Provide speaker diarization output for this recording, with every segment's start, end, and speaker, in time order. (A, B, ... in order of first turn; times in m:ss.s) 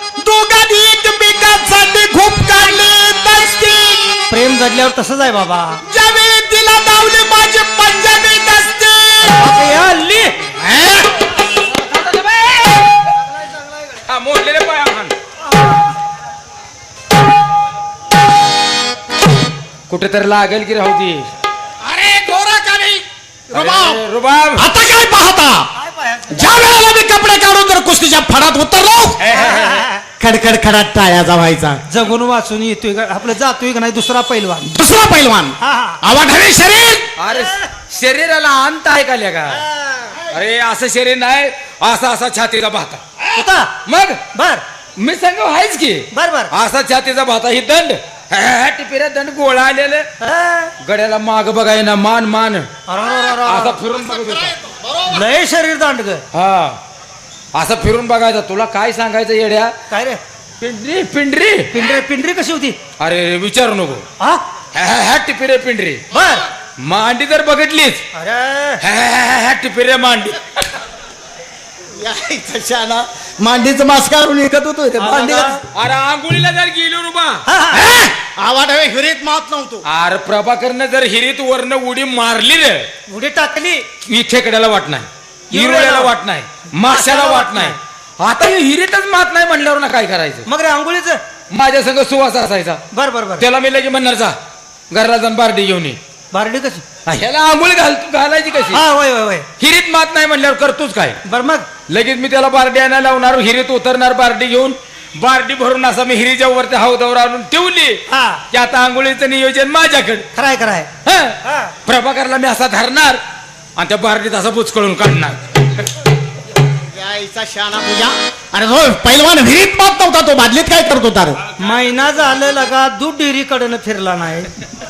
0:00.2-0:04.2 A
0:04.3-0:05.8 B
0:05.9-0:09.4 A
0:09.2-0:10.4 B
0:10.6-0:11.1 A
0:11.6-0:13.0 C
0:14.1-0:15.2 C
0:19.9-0:21.3 C
0:21.8-0:24.0 A
0:23.5-0:24.7 C
0:24.6-0:25.7 A
0:25.8-0:26.6 B
0:26.3-0:29.2 A
0:29.2-0:29.9 C
0:29.3-0:30.0 B
0:30.2-0:31.8 A
0:31.9-0:34.7 B
0:34.6-0:37.1 A
0:35.6-0:36.0 B
0:37.2-0:39.6 C
0:37.3-0:37.7 B
0:39.5-0:40.2 B
0:40.3-0:43.2 C
0:43.3-0:43.8 B
0:43.9-0:44.2 C
0:44.3-0:44.6 B
0:45.0-0:50.1 C
0:46.1-0:46.5 B
0:50.2-0:50.7 B
0:50.8-0:52.7 C
0:52.9-0:53.8 B
0:53.4-0:54.5 C
0:54.0-0:55.2 A
0:55.1-0:56.2 B
0:56.3-0:56.8 C
0:57.5-0:59.8 C
0:59.9-1:00.2 B
1:00.6-1:01.7 C
1:01.7-1:02.8 B
1:03.0-1:04.0 C
1:04.8-1:06.0 C
1:06.1-1:06.4 B
1:06.8-1:08.0 C
1:08.1-1:08.8 B
1:08.8-1:10.6 C
1:12.0-1:15.6 A
1:15.0-1:15.6 B
1:15.7-1:17.4 C
1:17.5-1:17.9 B
1:17.7-1:19.8 A
1:19.8-1:22.9 C
1:23.1-1:23.8 B
1:24.0-1:30.5 C
1:25.5-1:26.1 B
1:26.9-1:27.8 B
1:30.5-1:31.2 B
1:31.5-1:32.8 C
1:32.9-1:33.5 B
1:33.4-1:34.4 C
1:34.9-1:36.0 C
1:36.3-1:36.8 B
1:37.1-1:38.8 C
1:38.7-1:39.5 B
1:39.6-1:41.2 C
1:41.3-1:41.7 B
1:41.9-1:50.3 C
1:48.1-1:48.4 B
1:50.4-1:50.9 B
1:51.0-1:53.2 C
1:51.4-1:51.8 B
1:53.8-1:55.6 C
1:56.8-2:01.4 A
2:01.6-2:04.6 B